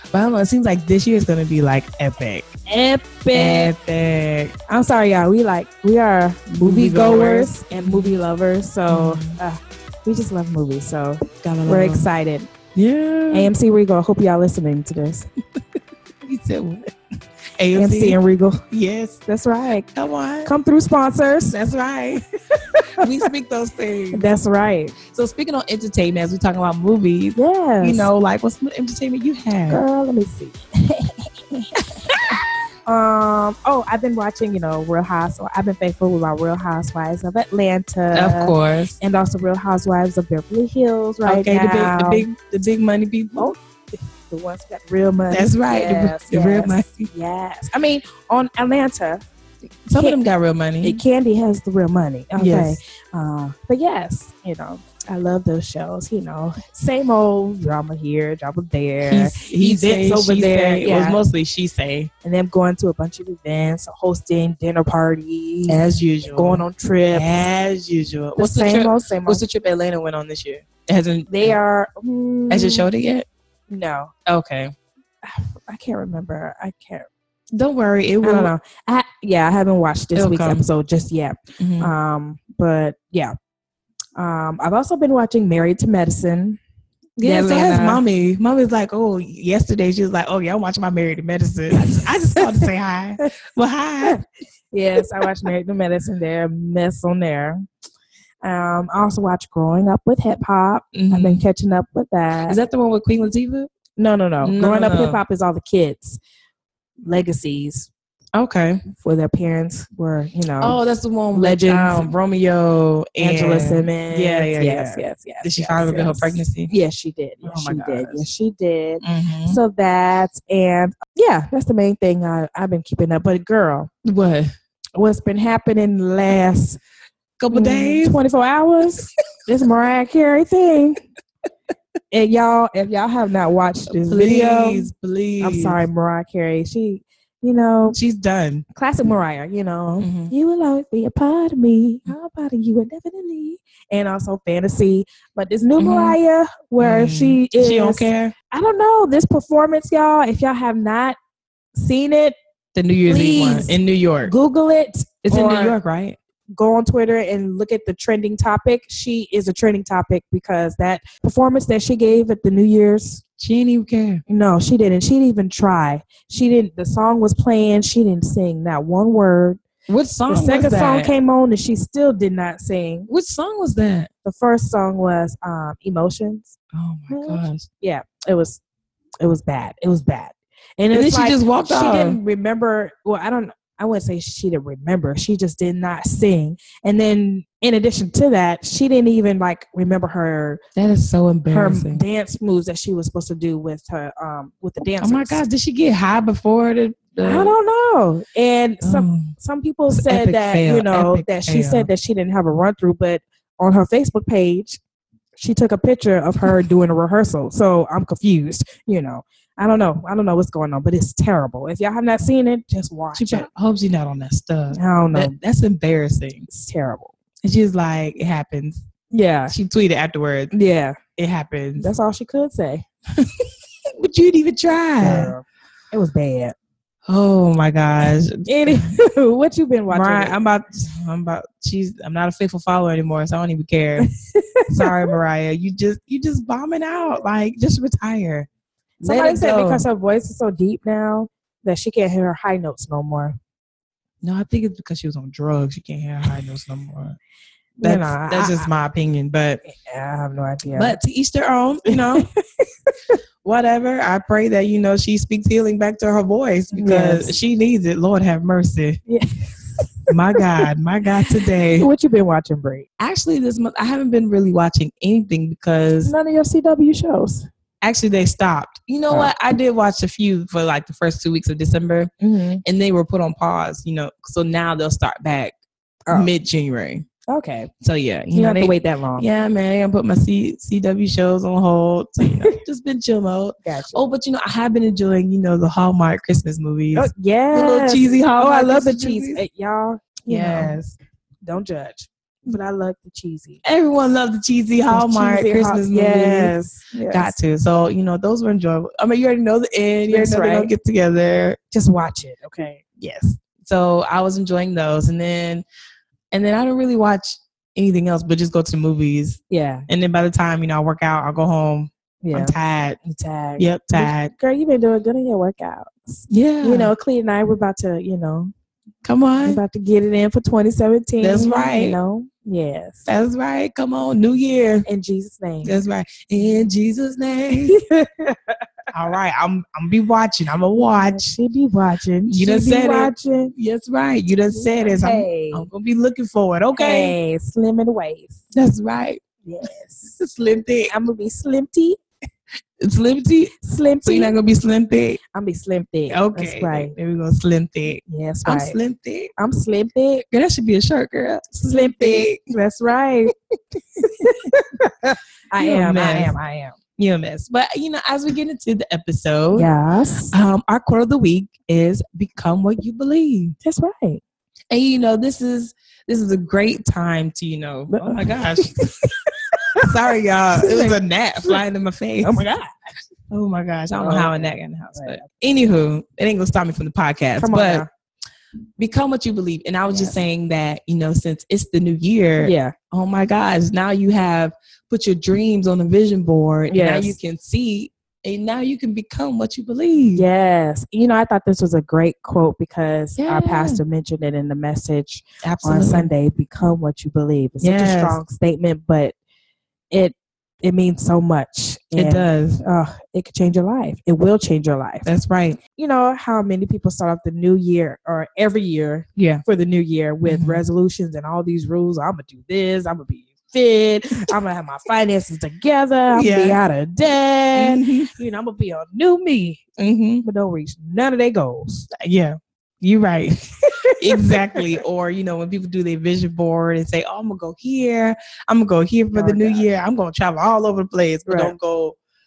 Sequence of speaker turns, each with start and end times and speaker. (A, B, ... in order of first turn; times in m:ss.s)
0:00.1-0:02.5 A
0:02.7-0:03.7 B
0:03.3-0:04.5 A
0:04.7-0:12.5 B
0:06.5-0:08.2 A
0:08.9-0:09.4 A
0:11.4-0:12.1 A
0:12.8-0:13.5 A
0:13.3-0:15.3 B
0:16.2-0:16.9 A
0:17.6-0:18.2 A
0:17.7-0:18.6 B
0:18.7-0:19.2 A
0:19.3-0:19.9 B
0:20.0-0:20.5 A
0:20.4-0:21.6 B
0:21.5-0:22.2 A
0:22.2-0:23.1 B
0:23.0-0:24.3 A
0:24.1-0:25.0 B
0:25.0-0:29.8 A
0:27.4-0:28.1 B
0:29.7-0:32.1 B
0:32.0-0:32.4 A
0:32.9-0:42.3 B
0:38.1-0:39.0 A
0:41.2-0:43.5 A
0:43.4-0:49.2 B
0:45.3-0:47.1 A
0:49.9-0:51.0 A
0:50.8-1:01.2 B
0:52.4-0:52.8 A
0:59.1-1:02.1 A
1:02.2-1:05.8 B
1:05.7-1:11.6 A
1:06.3-1:07.4 B
1:08.4-1:09.4 B
1:11.3-1:12.9 B
1:12.5-1:13.3 A
1:13.7-1:14.1 B
1:14.3-1:14.7 A
1:15.2-1:17.1 B
1:17.5-1:18.5 A
1:18.2-1:23.3 B
1:20.2-1:20.6 A
1:21.6-1:21.9 A
1:24.2-1:26.6 B
1:27.2-1:34.2 A
1:27.2-1:28.0 B
1:31.7-1:32.7 B
1:34.0-1:37.7 B
1:35.0-1:35.3 A
1:38.4-1:42.6 B
1:40.9-1:41.4 A
1:42.5-1:43.7 A
1:44.0-1:46.2 B
1:44.4-1:45.2 A
1:47.0-1:47.9 B
1:48.3-1:48.8 A
1:48.9-1:50.8 B
1:50.6-1:56.7 A
1:51.3-1:52.1 B
1:53.2-2:03.9 B
1:57.4-1:58.3 A
1:59.0-1:59.6 A
2:04.0-2:04.5 A
2:05.0-2:06.8 B
2:07.4-2:08.2 A
2:07.5-2:11.0 B
2:12.1-2:14.9 B
2:13.9-2:15.8 A
2:15.4-2:18.0 B
2:17.9-2:18.6 A
2:18.8-2:31.2 B
2:20.0-2:20.3 A
2:25.8-2:26.2 A
2:26.8-2:28.3 A
2:31.8-2:32.4 B
2:32.7-2:34.3 A
2:33.1-2:35.8 B
2:35.3-2:36.2 A
2:36.6-2:43.2 B
2:43.4-2:44.2 A
2:44.3-2:49.6 B
2:49.9-2:51.1 A
2:50.3-2:53.1 B
2:53.1-2:54.1 A
2:54.2-2:56.6 B
2:56.7-2:57.7 A
2:57.1-2:58.6 B
2:59.2-3:10.6 B
3:00.9-3:02.2 A
3:10.8-3:12.0 A
3:11.5-3:15.4 B
3:15.0-3:17.5 A
3:17.2-3:24.8 B
3:18.8-3:19.3 A
3:19.9-3:21.9 A
3:25.4-3:33.5 B
3:33.1-3:36.5 A
3:34.7-3:35.3 B
3:36.5-3:37.1 B
3:37.4-3:38.8 A
3:39.1-3:39.6 B
3:39.5-3:40.5 A
3:40.5-3:41.0 B
3:41.2-3:41.9 A
3:41.8-3:42.8 B
3:44.0-3:45.3 A
3:45.0-3:46.6 B
3:47.1-3:48.9 A
3:48.5-3:50.4 B
3:49.9-3:54.1 A
3:54.0-3:55.1 B
3:54.7-3:58.5 A
3:59.0-4:03.4 B
3:59.0-3:59.8 A
4:04.2-4:07.2 A
4:07.8-4:08.7 B
4:07.8-4:09.6 A
4:09.7-4:11.0 B
4:10.7-4:12.3 A
4:11.9-4:12.3 B
4:13.4-4:19.0 A
4:16.7-4:17.4 B
4:19.1-4:20.6 B
4:20.1-4:21.9 A
4:21.8-4:22.9 B
4:23.0-4:26.1 A
4:26.0-4:27.5 B
4:27.8-4:32.1 A
4:32.2-4:32.6 B
4:32.6-4:35.5 A
4:36.1-4:37.0 A
4:37.3-4:37.7 B
4:37.8-4:49.4 A
4:38.3-4:39.2 B
4:42.3-4:42.6 B
4:43.6-4:44.0 B
4:46.9-4:50.8 B
4:50.3-4:51.0 A
4:51.4-4:53.6 B
4:53.6-4:56.5 A
4:54.9-4:57.4 B
4:57.1-5:01.6 A
5:00.1-5:00.7 B
5:01.7-5:02.8 B
5:03.0-5:05.6 A
5:06.3-5:13.0 A
5:09.5-5:09.9 B
5:12.2-5:18.5 B
5:13.6-5:14.3 A
5:16.3-5:16.9 A
5:19.0-5:19.6 A
5:19.4-5:23.0 B
5:21.2-5:22.0 A
5:23.1-5:24.9 A
5:24.9-5:25.8 B
5:25.6-5:27.8 A
5:27.6-5:28.6 B
5:28.9-5:31.4 A
5:30.8-5:33.5 B
5:32.3-5:37.2 A
5:34.5-5:35.7 B
5:36.8-5:38.4 B
5:38.5-5:39.2 A
5:39.4-5:40.2 B
5:40.2-5:40.9 A
5:40.9-5:42.0 B
5:42.8-5:43.5 A
5:43.6-5:44.3 B
5:44.0-5:45.2 A
5:45.3-5:46.9 B
5:46.1-5:49.3 A
5:48.1-5:48.8 B
5:49.4-5:50.2 B
5:50.3-5:52.4 A
5:51.7-5:53.3 B
5:54.0-5:54.8 B
5:55.5-5:56.4 B
5:55.6-5:59.7 A
5:59.5-6:00.4 B
6:00.3-6:03.6 A
6:03.6-6:04.2 B
6:04.7-6:08.8 A
6:07.9-6:09.8 B
6:09.8-6:12.5 A
6:10.6-6:11.5 B
6:12.2-6:12.7 B
6:13.3-6:17.9 A
6:14.0-6:15.3 B
6:17.4-6:17.9 B
6:18.8-6:30.2 A
6:19.9-6:20.2 B
6:22.4-6:22.7 B
6:26.7-6:27.2 B
6:30.2-6:39.2 B
6:33.2-6:33.8 A
6:35.4-6:36.1 A
6:37.6-6:38.2 A
6:39.9-6:45.1 B
6:42.0-6:42.6 A
6:45.0-6:45.6 A
6:45.8-6:59.6 B
6:49.2-6:49.4 A
6:50.3-6:50.6 A
6:56.1-6:56.6 A
6:57.6-6:58.1 A
6:59.8-7:00.2 A
7:00.2-7:01.9 B
7:01.9-7:03.4 A
7:03.7-7:04.8 B
7:04.0-7:12.0 A
7:09.1-7:09.6 B
7:11.3-7:11.5 B